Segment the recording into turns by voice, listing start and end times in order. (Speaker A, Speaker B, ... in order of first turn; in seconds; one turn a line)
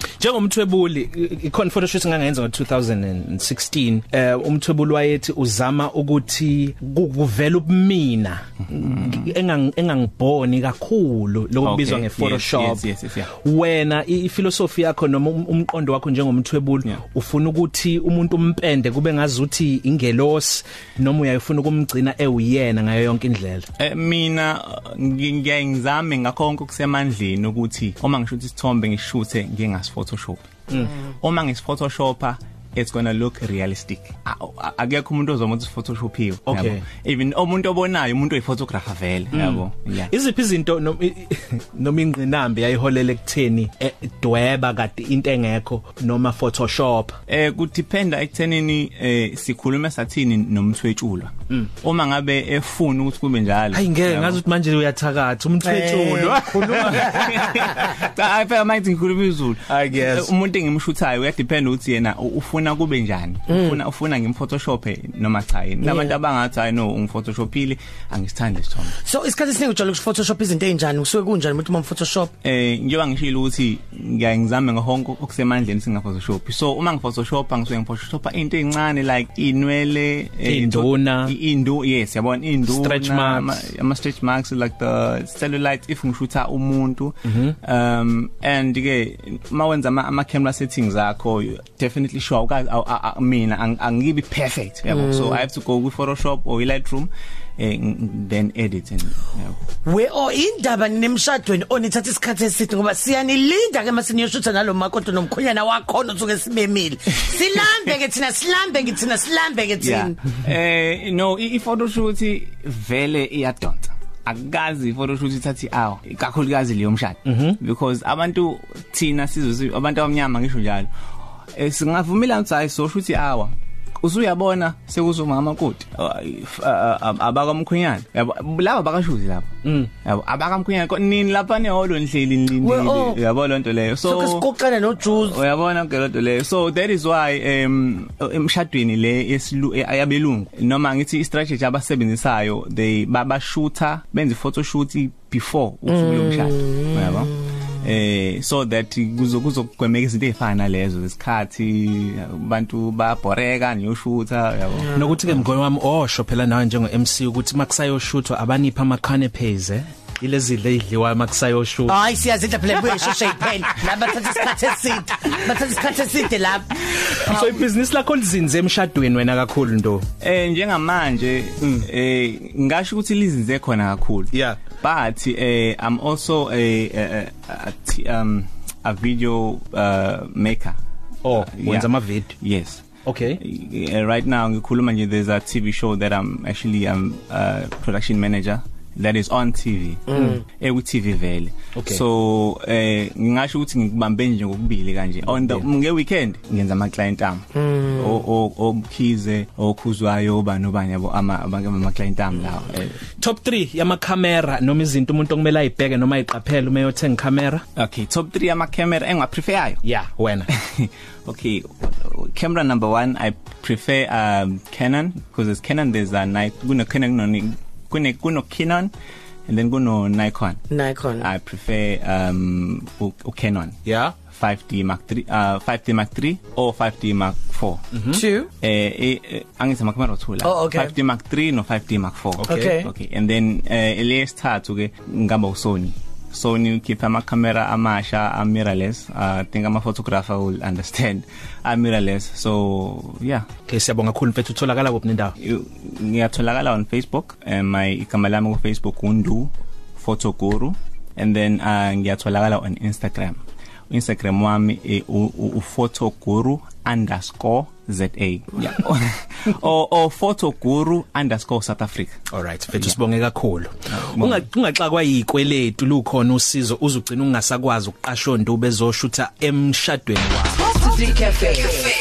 Speaker A: 0.2-23.7
Speaker B: 8.7-9.3
Speaker B: 11.6-13.3
Speaker B: 23.8-40.1
Speaker A: 36.5-36.8
Speaker A: 39.3-47.2
Speaker B: 47.3-54.4
Speaker A: 53.7-57.8
Speaker C: 55.6-57.8
Speaker B: 56.7-69.0
Speaker A: 59.7-60.3
Speaker C: 63.5-63.8
Speaker C: 65.8-66.2
Speaker C: 69.0-72.3
Speaker B: 72.4-99.6
Speaker A: 80.5-81.4
Speaker A: 82.7-83.6
Speaker A: 87.2-87.6
Speaker C: 95.1-95.5
Speaker C: 99.8-110.2
Speaker B: 109.8-120.9
Speaker A: 117.3-117.6
Speaker B: 121.6-134.5
Speaker A: 129.6-129.9
Speaker C: 132.6-133.2
Speaker C: 134.1-135.4
Speaker B: 135.1-155.4
Speaker C: 145.9-147.7
Speaker A: 154.9-162.0
Speaker C: 161.9-167.3
Speaker A: 166.9-170.1
Speaker B: 170.2-180.8
Speaker A: 171.6-171.9
Speaker A: 174.3-174.6
Speaker A: 181.2-182.3
Speaker B: 181.3-182.9
Speaker A: 183.1-183.4
Speaker B: 183.4-203.0
Speaker C: 190.1-190.4
Speaker A: 190.1-190.4
Speaker A: 191.7-192.0
Speaker A: 195.3-195.7
Speaker C: 197.6-198.2
Speaker A: 203.2-207.6
Speaker B: 207.8-209.8
Speaker A: 209.8-210.5
Speaker B: 210.5-218.9
Speaker B: 219.5-220.7
Speaker C: 220.7-221.3
Speaker B: 221.2-223.8
Speaker A: 223.8-224.2
Speaker B: 224.3-227.8
Speaker A: 227.9-228.2
Speaker C: 228.1-228.5
Speaker B: 228.6-243.5
Speaker C: 230.4-230.9
Speaker A: 232.4-232.8
Speaker C: 232.5-232.9
Speaker A: 243.7-245.3
Speaker B: 245.4-253.4
Speaker B: 253.9-262.2
Speaker A: 262.3-270.7
Speaker B: 263.9-264.5